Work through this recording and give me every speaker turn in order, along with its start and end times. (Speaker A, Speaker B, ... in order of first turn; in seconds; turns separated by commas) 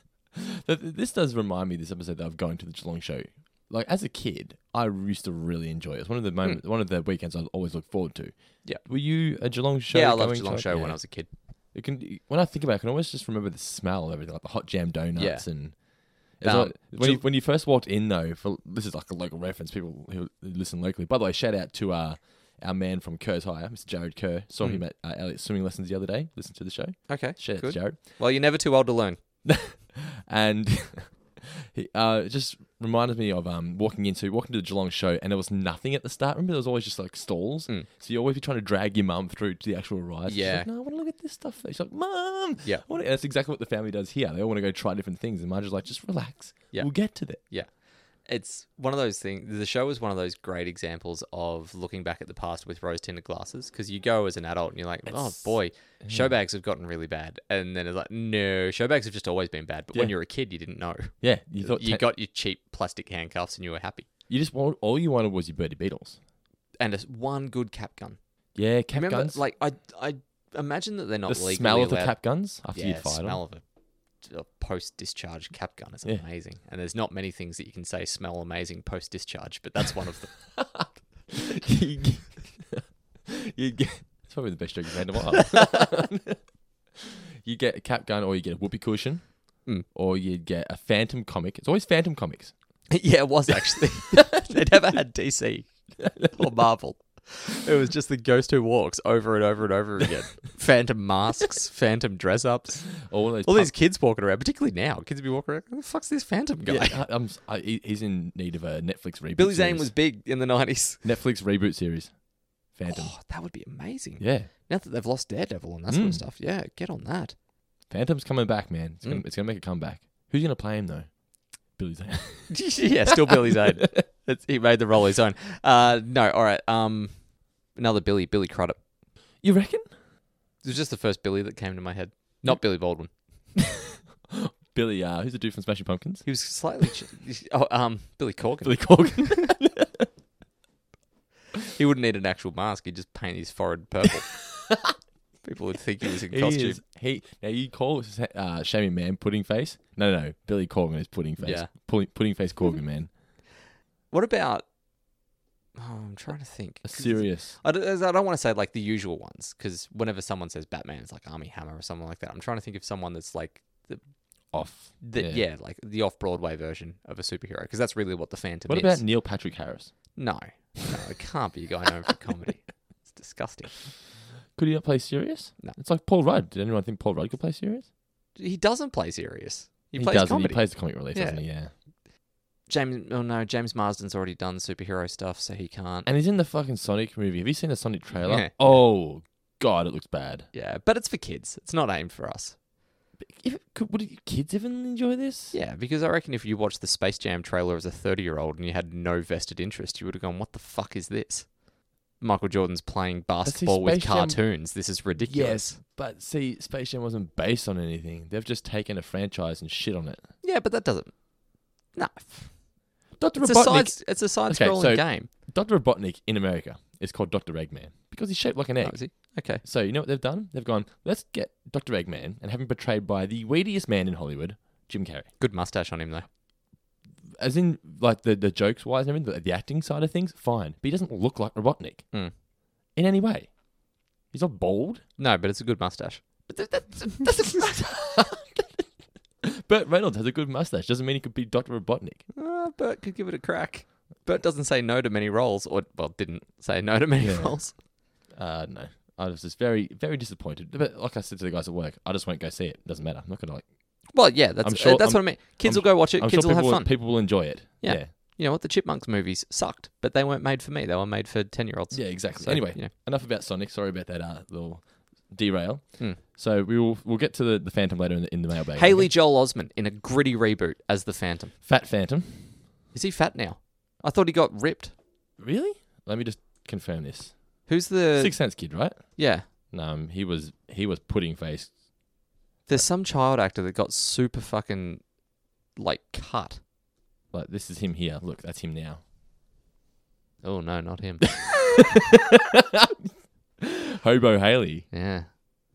Speaker A: 0.3-28.0, Speaker B: 9.9-11.3, Speaker B: 15.2-15.8, Speaker B: 16.4-17.2, Speaker B: 27.1-29.2, Speaker A: 29.4-47.4, Speaker B: 40.3-40.7, Speaker B: 46.7-64.1, Speaker A: 55.1-56.4, Speaker A: 61.2-62.1, Speaker A: 64.3-66.2, Speaker B: 66.8-68.2, Speaker A: 68.5-69.4, Speaker B: 68.9-73.6, Speaker A: 71.3-73.4, Speaker B: 74.2-80.5, Speaker A: 80.6-86.4, Speaker A: 87.4-92.5, Speaker B: 92.9-107.0, Speaker A: 96.0-96.5, Speaker A: 103.0-103.7, Speaker A: 106.6-109.9, Speaker B: 109.4-111.0, Speaker A: 111.0-113.2, Speaker B: 112.9-117.3, Speaker A: 114.2-114.5, Speaker A: 115.9-116.2, Speaker A: 117.9-124.0, Speaker B: 122.5-128.8, Speaker A: 129.4-129.9, Speaker B: 130.6-133.1, Speaker A: 134.3-136.2, Speaker B: 136.2-139.5, Speaker A: 138.6-140.1, Speaker B: 141.7-144.3, Speaker A: 144.6-144.9, Speaker B: 145.4-146.8, Speaker A: 146.3-153.1, Speaker B: 151.4-151.7, Speaker B: 154.1-154.6, Speaker B: 155.8-164.1, Speaker A: 156.8-157.6, Speaker A: 164.5-165.4, Speaker B: 165.0-169.0, Speaker A: 168.7-170.2, Speaker B: 170.1-173.7, Speaker A: 174.6-177.9, Speaker B: 178.4-181.4, Speaker A: 179.9-181.7, Speaker B: 182.7-186.1, Speaker A: 186.1-190.5, Speaker B: 188.2-188.9, Speaker B: 190.5-192.6, Speaker A: 193.2-195.6, Speaker B: 195.5-201.6, Speaker B: 202.2-205.8, Speaker A: 203.4-210.3, Speaker B: 210.4-212.7, Speaker A: 213.2-225.3, Speaker B: 213.4-215.3, Speaker B: 218.8-219.6, Speaker B: 225.4-226.2, Speaker A: 227.3-232.2, Speaker A: 232.9-233.6, Speaker A: 234.2-235.1, Speaker B: 235.2-237.7, Speaker A: 236.9-238.8, Speaker A: 239.4-242.2, Speaker B: 242.3-247.7, Speaker A: 247.2-258.1, Speaker B: 254.1-262.9, Speaker A: 261.9-269.1, Speaker B: 268.8-271.5, Speaker A: 271.6-272.6, Speaker B: 272.9-274.9, Speaker A: 275.4-281.8, Speaker B: 277.6-279.4, Speaker B: 282.7-285.1, Speaker B: 285.7-286.6, Speaker A: 287.3-289.0, Speaker B: 290.4-291.3, Speaker A: 292.6-293.1, Speaker A: 293.6-294.9, Speaker B: 294.9-295.4